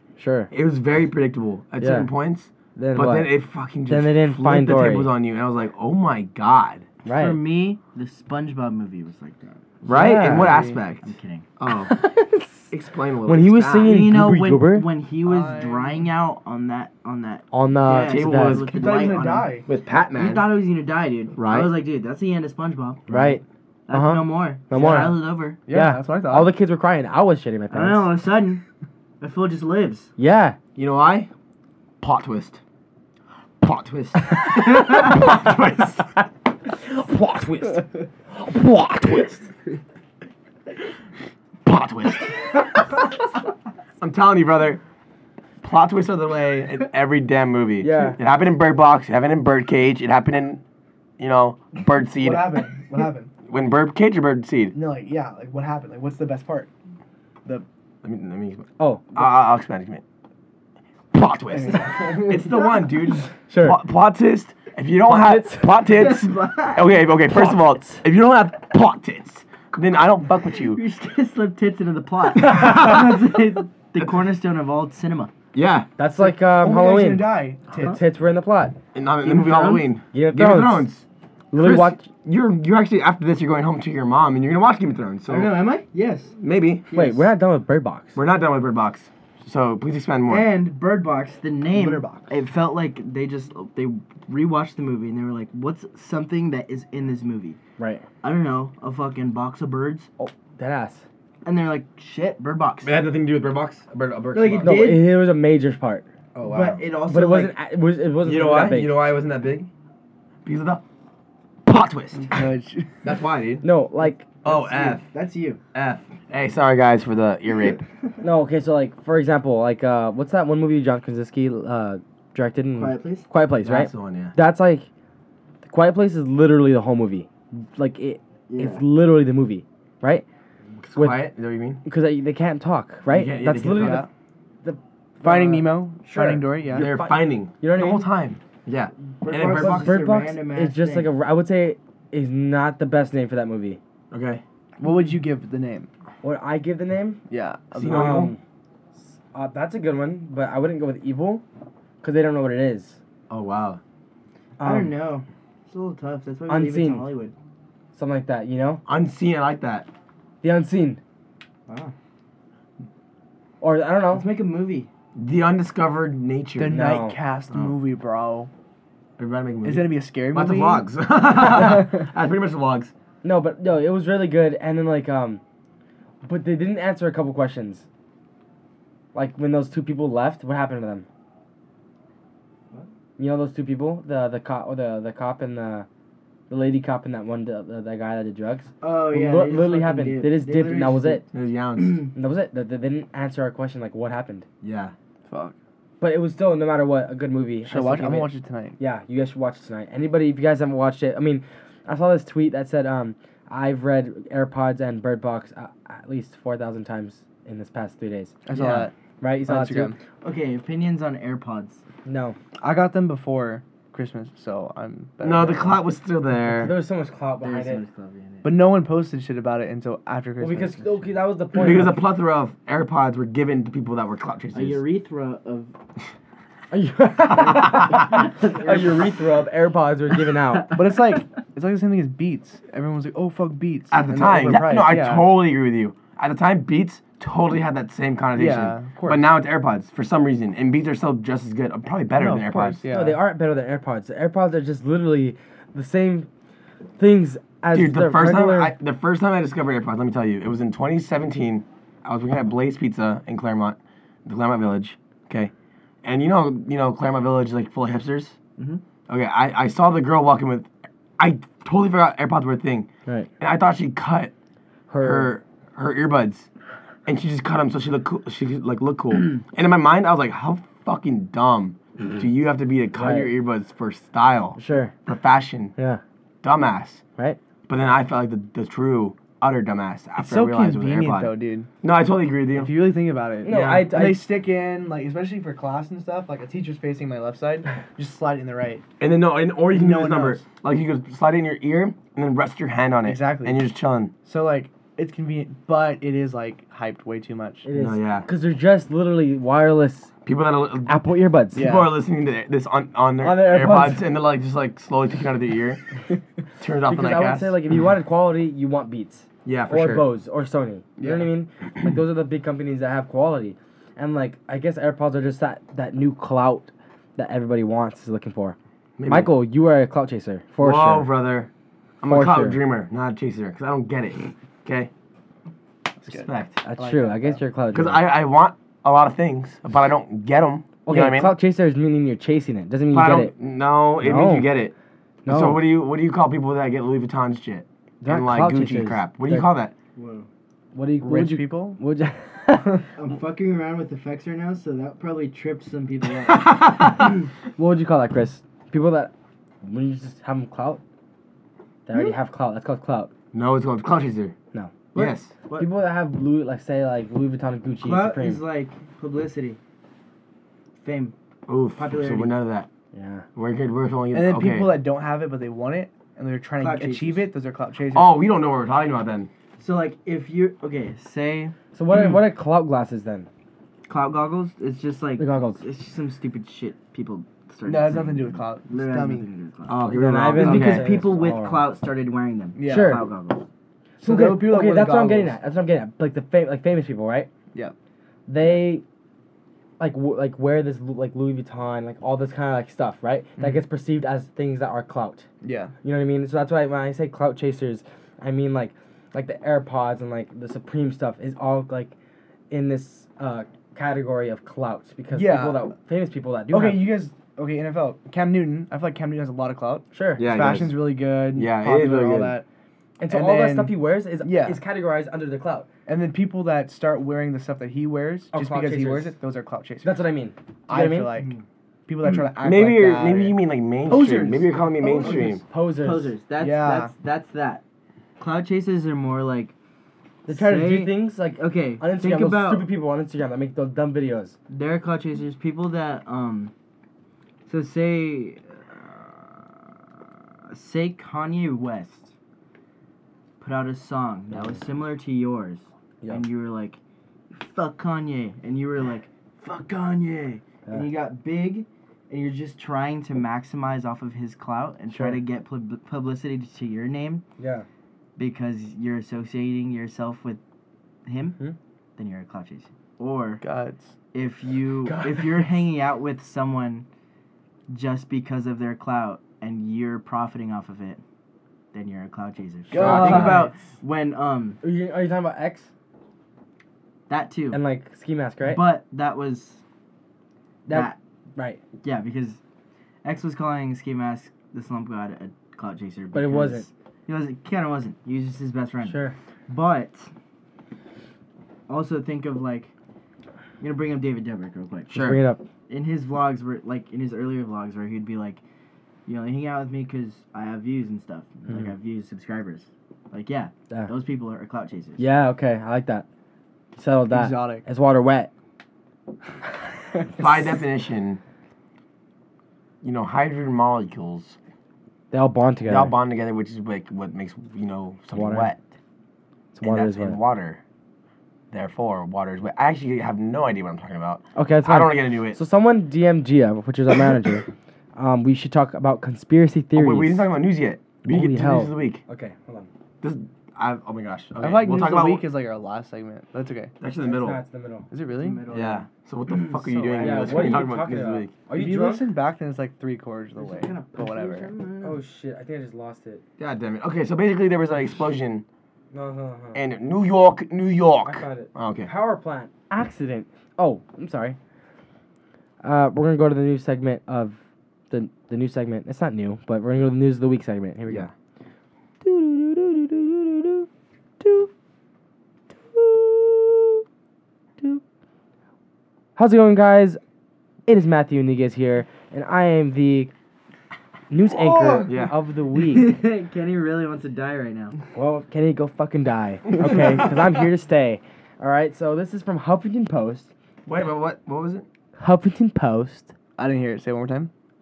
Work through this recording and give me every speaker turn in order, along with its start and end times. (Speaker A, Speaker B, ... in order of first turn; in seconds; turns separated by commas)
Speaker A: 0.2-0.5, Speaker B: 0.5-6.8, Speaker A: 1.8-2.1, Speaker A: 2.8-3.4, Speaker A: 3.9-5.1, Speaker A: 7.0-7.4, Speaker C: 7.1-9.6, Speaker B: 9.8-11.9, Speaker A: 9.9-10.6, Speaker D: 10.2-10.8, Speaker C: 11.0-11.5, Speaker A: 11.8-12.7, Speaker B: 12.7-13.9, Speaker A: 13.2-14.9, Speaker C: 13.8-19.6, Speaker D: 15.2-16.1, Speaker A: 17.5-18.6, Speaker B: 18.0-18.7, Speaker D: 18.7-19.6, Speaker B: 19.6-20.5, Speaker C: 20.1-23.0, Speaker B: 21.4-21.7, Speaker A: 23.1-28.1, Speaker C: 23.9-25.6, Speaker D: 25.7-26.5, Speaker C: 27.7-28.6, Speaker C: 29.2-30.1, Speaker A: 30.2-30.6, Speaker B: 30.8-31.3, Speaker B: 32.0-32.6, Speaker B: 33.6-36.1, Speaker A: 36.9-39.3, Speaker B: 39.0-39.4, Speaker B: 41.6-43.0, Speaker B: 44.0-44.8, Speaker B: 45.6-50.6, Speaker A: 47.8-48.2, Speaker B: 51.2-52.6, Speaker D: 52.2-53.3, Speaker B: 53.5-54.7, Speaker D: 54.7-56.7, Speaker B: 58.0-60.0, Speaker A: 58.8-59.1, Speaker B: 61.1-70.8, Speaker D: 61.5-62.6, Speaker A: 63.5-63.8, Speaker A: 65.0-65.9, Speaker C: 65.8-66.9, Speaker A: 67.3-68.0, Speaker C: 70.5-75.3, Speaker B: 72.5-73.2, Speaker B: 75.5-75.9, Speaker A: 76.0-78.8, Speaker D: 76.2-78.0, Speaker B: 78.9-85.6, Speaker C: 79.2-79.9, Speaker A: 80.1-80.9, Speaker A: 81.5-82.0, Speaker C: 85.3-86.4, Speaker B: 86.4-86.9, Speaker C: 86.9-87.3, Speaker A: 86.9-88.2, Speaker B: 88.2-90.5, Speaker C: 90.3-97.6, Speaker D: 91.7-92.3, Speaker A: 97.8-98.0, Speaker C: 98.2-100.1, Speaker A: 100.2-101.0, Speaker C: 101.4-103.0, Speaker B: 102.8-104.9, Speaker C: 104.3-105.1, Speaker A: 104.6-106.1, Speaker B: 106.3-106.8, Speaker C: 106.4-107.5, Speaker A: 107.1-109.0, Speaker B: 108.2-109.7, Speaker B: 110.4-110.8, Speaker B: 111.6-112.5, Speaker D: 112.3-112.9, Speaker B: 113.0-113.6, Speaker A: 113.6-114.2, Speaker B: 114.4-115.0, Speaker C: 114.4-115.6, Speaker B: 115.7-117.8, Speaker A: 118.2-124.8, Speaker C: 122.7-123.3, Speaker B: 123.6-124.3, Speaker A: 125.6-130.2, Speaker C: 128.5-128.8, Speaker B: 130.8-131.8, Speaker A: 130.9-131.3, Speaker A: 131.8-134.1, Speaker B: 133.1-134.0, Speaker D: 133.6-134.1, Speaker A: 134.6-138.1, Speaker D: 135.2-136.9, Speaker B: 136.7-140.0, Speaker C: 139.2-141.1, Speaker A: 139.5-143.8, Speaker B: 144.1-144.4, Speaker D: 144.8-145.9, Speaker A: 146.2-147.2, Speaker D: 147.3-148.3, Speaker B: 147.7-148.3, Speaker A: 147.8-148.4, Speaker A: 148.9-151.4, Speaker A: 152.0-153.0, Speaker B: 153.3-153.8, Speaker A: 154.6-154.9, Speaker C: 154.6-157.3, Speaker A: 156.5-157.1, Speaker A: 157.9-158.8, Speaker B: 158.8-159.9, Speaker A: 160.4-161.0, Speaker C: 161.7-161.9, Speaker A: 163.6-164.3, Speaker C: 164.1-164.9, Speaker B: 165.1-166.8, Speaker D: 166.6-168.5, Speaker A: 166.7-167.2, Speaker B: 169.2-172.9, Speaker D: 169.6-170.8, Speaker D: 171.4-172.0, Speaker A: 173.2-175.4, Speaker A: 176.2-177.8, Speaker A: 179.1-181.1, Speaker A: 183.2-185.9, Speaker A: 186.5-191.2, Speaker C: 188.8-191.2, Speaker B: 191.3-192.1, Speaker A: 192.1-194.4, Speaker B: 194.6-194.9, Speaker D: 195.3-195.5, Speaker A: 196.0-208.4, Speaker D: 197.7-198.8, Speaker D: 208.4-208.9, Speaker B: 208.5-208.9, Speaker A: 209.2-209.9, Speaker D: 209.4-210.0, Speaker C: 210.2-211.8, Speaker A: 212.1-212.4, Speaker D: 212.6-215.8, Speaker B: 215.2-216.7, Speaker A: 216.5-217.8, Speaker C: 217.4-218.5, Speaker D: 218.4-221.1, Speaker A: 220.4-222.0, Speaker B: 221.5-224.8, Speaker C: 224.5-225.7, Speaker A: 226.7-230.8, Speaker C: 227.3-229.2, Speaker C: 230.5-230.8, Speaker D: 230.7-235.3, Speaker B: 233.9-242.8, Speaker D: 238.3-239.3, Speaker D: 242.1-243.2, Speaker A: 242.9-246.3, Speaker A: 247.0-248.7, Speaker B: 247.7-255.5, Speaker B: 256.0-258.4, Speaker B: 259.1-264.3, Speaker A: 264.9-265.3, Speaker B: 265.0-266.5, Speaker B: 267.1-275.7, Speaker A: 272.9-273.3, Speaker A: 274.6-274.9, Speaker B: 276.4-277.0, Speaker B: 277.7-282.7, Speaker D: 280.2-281.7, Speaker D: 282.5-288.8, Speaker A: 283.4-284.3, Speaker B: 283.5-283.9, Speaker B: 289.0-294.1, Speaker D: 289.7-290.4, Speaker D: 293.0-293.6, Speaker D: 294.2-297.6, Speaker A: 297.6-300.1, Speaker B: 297.7-298.3, Speaker B: 300.2-300.9, Speaker A: 300.9-301.6, Speaker D: 301.5-301.9, Speaker B: 301.5-305.8, Speaker A: 303.2-304.0, Speaker B: 306.6-307.5, Speaker A: 306.9-321.1, Speaker B: 309.4-310.1, Speaker D: 311.0-311.3, Speaker B: 319.0-319.3, Speaker B: 320.6-321.5, Speaker B: 322.0-324.9, Speaker A: 322.1-322.6, Speaker D: 326.0-327.4, Speaker B: 326.1-326.6, Speaker A: 326.6-328.0, Speaker B: 327.7-331.3, Speaker A: 330.8-333.3, Speaker B: 332.9-334.7, Speaker A: 334.0-334.5, Speaker A: 335.2-335.6, Speaker B: 335.3-339.7, Speaker A: 338.0-339.5, Speaker C: 339.9-340.3, Speaker A: 340.7-342.9, Speaker D: 341.0-341.8, Speaker C: 342.9-346.6, Speaker B: 346.3-347.1, Speaker A: 347.6-350.8, Speaker A: 351.9-353.1, Speaker B: 353.3-354.3, Speaker A: 354.5-354.9, Speaker B: 354.9-355.3, Speaker C: 355.0-355.7, Speaker A: 355.5-358.4, Speaker C: 357.8-359.6, Speaker C: 360.8-361.1, Speaker B: 361.5-362.7, Speaker C: 361.7-362.4, Speaker A: 362.9-363.2, Speaker B: 363.3-364.8, Speaker D: 364.1-368.3, Speaker C: 366.6-367.3, Speaker B: 367.9-369.3, Speaker C: 369.6-371.5, Speaker A: 371.7-373.3, Speaker C: 373.9-383.4, Speaker A: 375.2-375.6, Speaker D: 377.6-379.3, Speaker B: 379.7-381.0, Speaker A: 379.9-381.7, Speaker D: 382.6-383.0, Speaker A: 382.6-383.0, Speaker D: 384.0-385.4, Speaker A: 384.0-387.3, Speaker A: 388.3-388.8, Speaker A: 389.8-395.3, Speaker D: 395.4-395.7, Speaker A: 395.8-401.9, Speaker A: 402.5-406.9, Speaker D: 405.1-405.7, Speaker D: 406.5-412.4, Speaker A: 409.9-410.2, Speaker B: 410.2-410.8, Speaker B: 411.3-412.4, Speaker A: 413.0-415.7, Speaker D: 413.1-414.6, Speaker D: 415.9-420.0, Speaker A: 418.3-419.1, Speaker A: 419.8-421.1, Speaker D: 420.7-421.3, Speaker C: 421.1-421.4, Speaker D: 421.9-425.4, Speaker B: 422.4-425.4, Speaker A: 425.4-426.1, Speaker C: 425.8-427.6, Speaker D: 426.4-426.9, Speaker C: 428.2-429.5, Speaker A: 430.2-434.4, Speaker C: 430.3-432.7, Speaker C: 434.5-436.5, Speaker C: 437.4-442.1, Speaker C: 443.4-446.8, Speaker C: 447.3-457.2, Speaker A: 457.4-457.6, Speaker C: 458.2-460.4, Speaker C: 461.1-461.4, Speaker C: 462.0-463.4, Speaker D: 463.4-463.9, Speaker C: 464.1-466.9, Speaker C: 467.7-471.0, Speaker C: 471.7-474.6, Speaker D: 472.7-473.5, Speaker A: 472.8-473.4, Speaker B: 472.8-473.5, Speaker A: 474.6-475.7, Speaker C: 477.1-477.6, Speaker A: 477.5-478.6, Speaker C: 478.4-479.6, Speaker A: 480.6-481.6, Speaker C: 480.7-481.0, Speaker C: 481.8-482.4, Speaker C: 483.0-490.1, Speaker A: 486.1-486.7, Speaker A: 488.8-489.1, Speaker C: 491.7-492.7, Speaker C: 493.6-495.1, Speaker B: 494.9-495.2, Speaker A: 494.9-495.4, Speaker C: 495.7-498.4, Speaker C: 499.1-505.0, Speaker A: 505.0-506.1, Speaker A: 506.7-508.3, Speaker D: 507.1-507.6, Speaker B: 510.2-511.2, Speaker B: 512.8-514.4, Speaker A: 515.1-515.9, Speaker B: 515.7-518.6, Speaker A: 518.1-518.5, Speaker A: 519.5-520.2, Speaker B: 519.6-520.6, Speaker B: 521.5-525.4, Speaker A: 524.3-530.3, Speaker B: 529.7-532.0, Speaker A: 531.0-532.7, Speaker B: 533.0-535.2, Speaker D: 534.4-536.7, Speaker B: 536.8-537.4, Speaker A: 537.0-537.9, Speaker D: 537.9-538.4, Speaker C: 538.1-540.5, Speaker B: 538.5-541.3, Speaker A: 540.0-542.0, Speaker D: 541.5-544.5, Speaker C: 543.4-545.0, Speaker A: 544.8-546.2, Speaker B: 546.4-548.4, Speaker A: 548.9-549.6, Speaker B: 549.5-551.9, Speaker A: 551.0-554.4, Speaker A: 555.6-557.4, Speaker A: 557.9-561.1, Speaker A: 562.0-563.7, Speaker A: 564.2-564.5, Speaker A: 565.6-566.8, Speaker A: 569.1-570.0, Speaker A: 570.6-573.1, Speaker A: 574.1-575.9, Speaker D: 574.3-574.9, Speaker B: 574.9-575.1, Speaker C: 575.5-577.8, Speaker A: 577.9-583.3, Speaker B: 579.6-580.0, Speaker B: 583.6-584.6, Speaker A: 585.0-586.1, Speaker D: 586.4-587.3